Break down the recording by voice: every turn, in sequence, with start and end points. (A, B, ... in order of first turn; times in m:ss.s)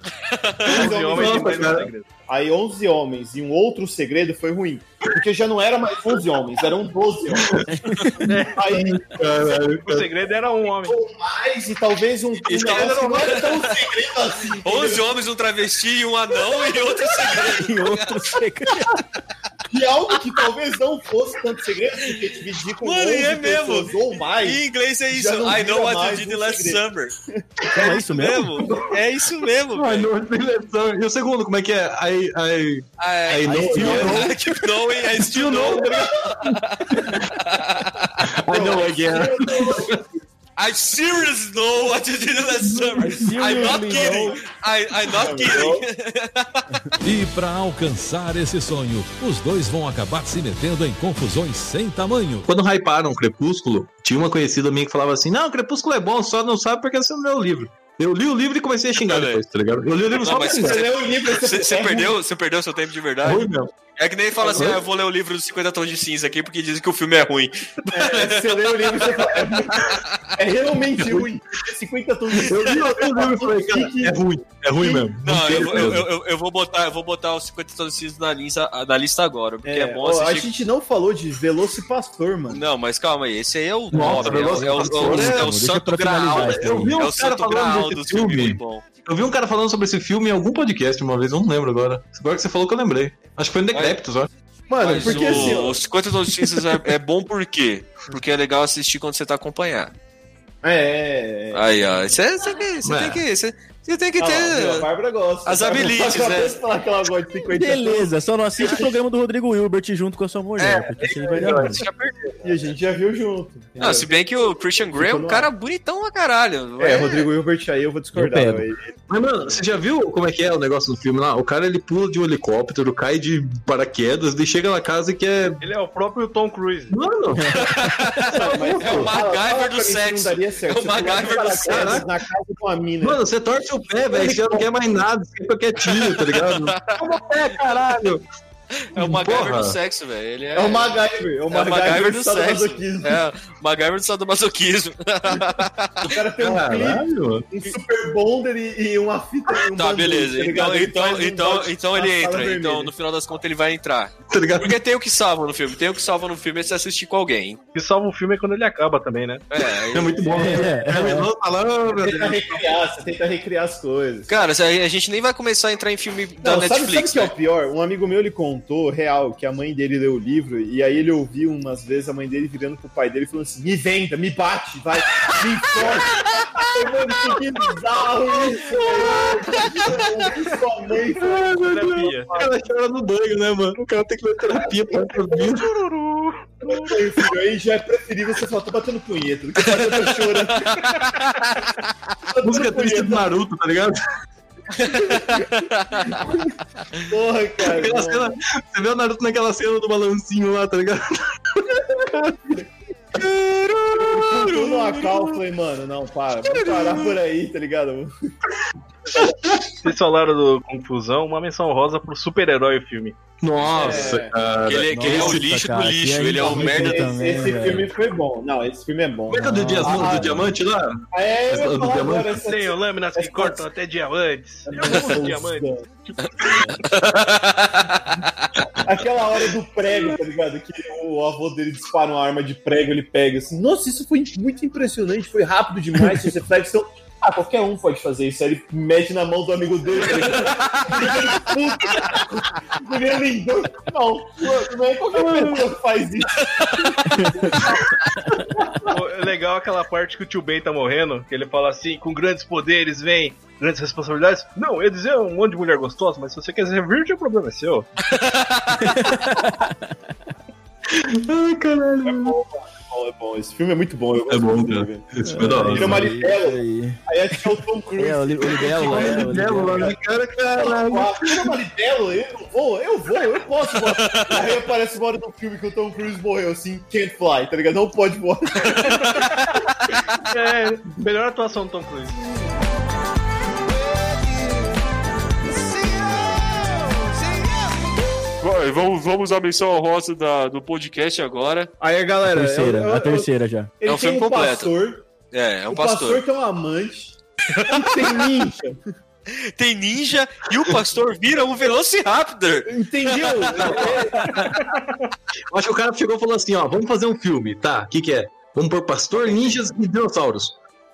0:00.3-0:00.9 A
0:00.7-0:02.1 B
0:00.7-0:01.9 C
0:00.7-0:01.7 D
0:02.3-0:07.6 D
0:07.4-0:07.6 C
0:07.7-0:08.3 E
0:08.2-0:08.7 B
0:08.5-0:09.0 D
0:08.7-0:10.1 C
0:09.5-0:11.0 B
0:10.8-0:15.1 D
0:12.4-0:13.9 A
0:14.6-0:18.4 A
0:16.5-0:17.3 D
0:17.5-0:19.0 E
0:19.7-0:26.8 D
0:22.8-0:27.1 A
0:27.7-0:28.5 E
0:27.7-0:30.1 A
0:28.6-0:28.9 C
0:29.7-0:34.3 C
0:33.0-0:38.3 A
0:33.4-0:34.7 E
0:33.8-0:34.1 D
0:35.1-0:37.3 C
0:38.3-0:40.0 C
0:38.5-0:39.9 D
0:40.6-0:46.7 A
0:42.6-0:43.4 C
0:43.0-0:44.4 E
0:43.3-0:44.4 D
0:45.1-0:45.8 D
0:47.0-0:52.5 F
0:52.4-1:00.8 C
0:59.0-0:59.4 A
1:00.1-1:10.3 A
1:00.3-1:02.1 D
1:03.2-1:03.7 C
1:04.4-1:04.8 C
1:07.9-1:14.2 D
1:11.0-1:11.2 C
1:12.4-1:16.1 C
1:14.8-1:15.0 D
1:15.2-1:20.5 A
1:19.6-1:22.6 D
1:22.5-1:28.9 A
1:23.9-1:25.5 C
1:24.0-1:27.0 E
1:26.4-1:34.3 C
1:34.7-1:35.8 D
1:34.8-1:39.9 A
1:35.0-1:35.5 C
1:40.6-1:41.7 D
1:41.5-1:44.9 A
1:42.8-1:43.2 C
1:44.2-1:48.9 D
1:45.4-1:46.6 A
1:47.5-1:51.8 E
1:50.6-1:52.7 A
1:51.4-1:51.8 C
1:52.4-1:54.1 D
1:53.8-1:57.3 A
1:54.9-1:55.5 D
1:56.8-1:59.0 D
1:58.1-1:58.6 E
1:59.1-2:05.6 C
2:05.6-2:07.0 B
2:06.9-2:07.6 C
2:07.3-2:08.3 E
2:07.5-2:12.0 A
2:08.3-2:13.2 D
2:08.4-2:09.1 C
2:11.7-2:12.1 C
2:13.0-2:18.2 C
2:14.1-2:14.7 D
2:15.8-2:17.0 A
2:18.7-2:21.0 A
2:19.0-2:19.8 C
2:20.5-2:23.2 D
2:21.5-2:26.2 A
2:26.0-2:32.9 D
2:26.4-2:27.5 C
2:29.7-2:37.6 A
2:34.3-2:34.8 C
2:37.7-2:39.4 B
2:39.5-2:40.4 A
2:39.9-2:42.6 C
2:40.4-2:41.3 E
2:41.9-2:44.3 D
2:44.3-2:47.3 A
2:46.4-3:01.5 D
2:58.8-2:59.6 C
3:01.2-3:05.7 C
3:01.4-3:02.3 B
3:05.2-3:06.9 B
3:06.7-3:11.0 D
3:09.6-3:11.7 A
3:12.3-3:13.3 D
3:12.4-3:14.0 C
3:14.7-3:16.2 A
3:14.9-3:15.4 D
3:17.1-3:18.3 D
3:17.6-3:22.6 C
3:23.2-3:25.0 A
3:24.0-3:28.1 D
3:26.6-3:26.8 C
3:29.2-3:29.7 C
3:29.8-3:33.2 B
3:33.4-3:35.4 C
3:33.7-3:34.0 B
3:33.7-3:34.4 D
3:34.6-3:37.1 A
3:34.9-3:37.9 E
3:36.4-3:40.5 D
3:39.3-3:42.3 C
3:39.4-3:40.2 E
3:41.1-3:43.6 D
3:42.3-3:46.7 B
3:44.7-3:45.8 D
3:46.4-3:48.5 A
3:48.8-4:06.5 D
4:00.3-4:01.2 A
4:05.2-4:05.5 C
4:06.4-4:06.9 A
4:07.1-4:07.6 E
4:08.9-4:17.9 B
4:18.0-4:19.1 A
4:18.8-4:20.3 E
4:20.9-4:22.4 C
4:22.0-4:30.0 D
4:24.3-4:26.1 C
4:25.2-4:27.0 E
4:28.0-4:29.9 E
4:28.6-4:31.5 C
4:30.5-4:38.8 D
4:33.8-4:34.4 A
4:38.6-4:40.0 A
4:38.8-4:39.3 B
4:40.3-4:42.2 B
4:48.4-4:51.7 A
4:51.8-4:55.1 D
4:52.2-4:53.7 E
4:53.8-4:54.7 A
4:55.3-4:56.2 A
4:55.7-4:58.8 D
4:57.5-4:58.3 A
4:59.3-5:04.0 A
5:02.7-5:04.2 D
5:03.6-5:04.0 C
5:04.5-5:04.9 B
5:05.5-5:10.6 C
5:09.2-5:09.6 B